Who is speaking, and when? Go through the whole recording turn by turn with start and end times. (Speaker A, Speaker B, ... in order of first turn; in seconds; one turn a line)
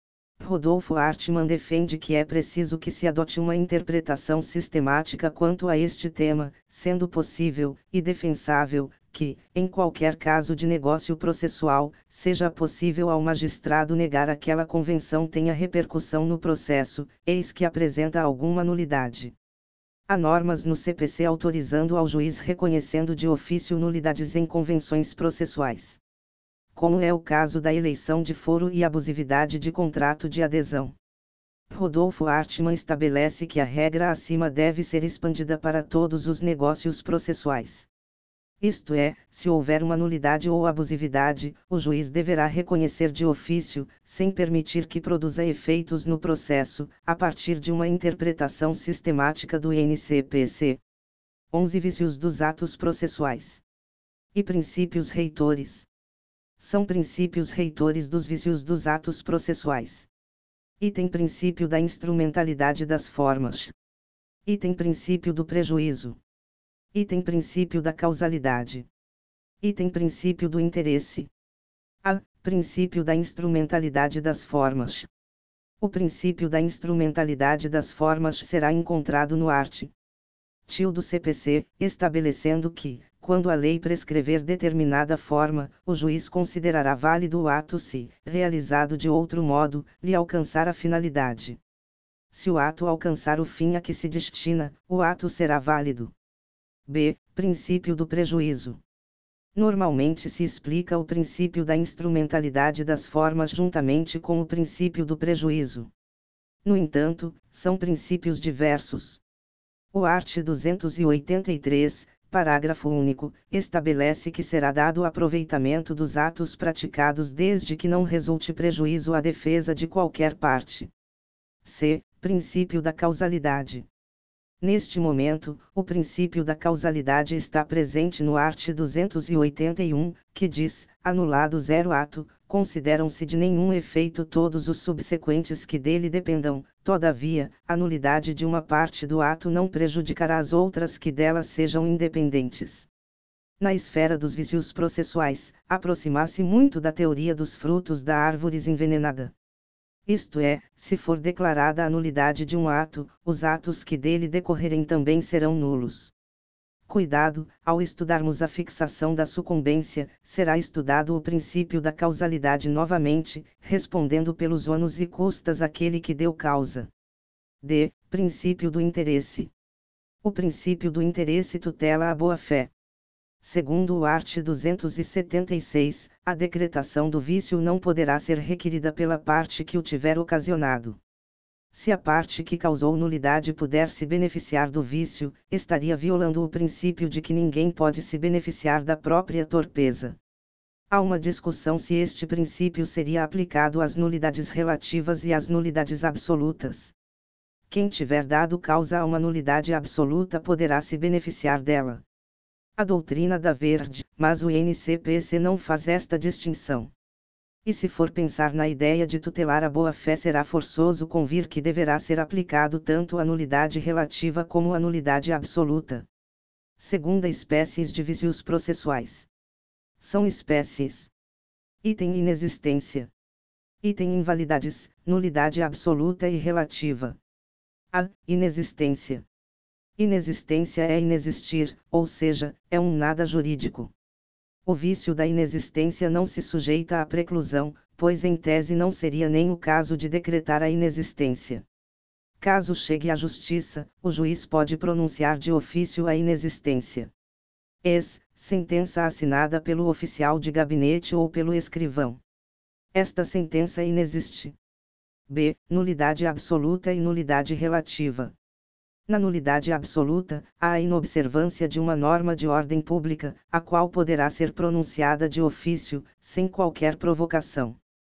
Speaker A: 0.4-19.3
Speaker A: 20.1-26.0
Speaker A: 26.7-30.9
Speaker A: 31.7-37.9
Speaker A: 38.6-50.8
Speaker A: 51.5-53.6
Speaker A: 54.3-55.9
Speaker A: 56.6-60.1
Speaker A: 60.8-63.7
Speaker A: 64.5-66.2
Speaker A: 66.9-68.9
Speaker A: 69.6-71.3
Speaker A: 72.0-75.1
Speaker A: 75.8-79.9
Speaker A: 80.7-91.6
Speaker A: 92.3-96.1
Speaker A: 96.9-98.8
Speaker A: 99.5-105.9
Speaker A: 106.6-109.2
Speaker A: 109.9-120.9
Speaker A: 121.6-123.9
Speaker A: 124.6-142.9
Speaker A: 143.6-149.3
Speaker A: 150.1-156.1
Speaker A: 156.9-166.9
Speaker A: 167.6-169.5
Speaker A: 170.2-172.7
Speaker A: 173.4-181.0
Speaker A: 181.7-190.2
Speaker A: 190.9-196.9
Speaker A: 197.7-202.0
Speaker A: 202.8-206.9
Speaker A: 207.6-216.1
Speaker A: 216.8-219.3
Speaker A: 220.0-221.1
Speaker A: 221.8-223.1
Speaker A: 223.8-227.2
Speaker A: 227.9-229.2
Speaker A: 230.0-233.9
Speaker A: 234.7-241.6
Speaker A: 242.4-247.1
Speaker A: 247.8-252.2
Speaker A: 252.9-254.6
Speaker A: 255.3-258.3
Speaker A: 259.1-267.8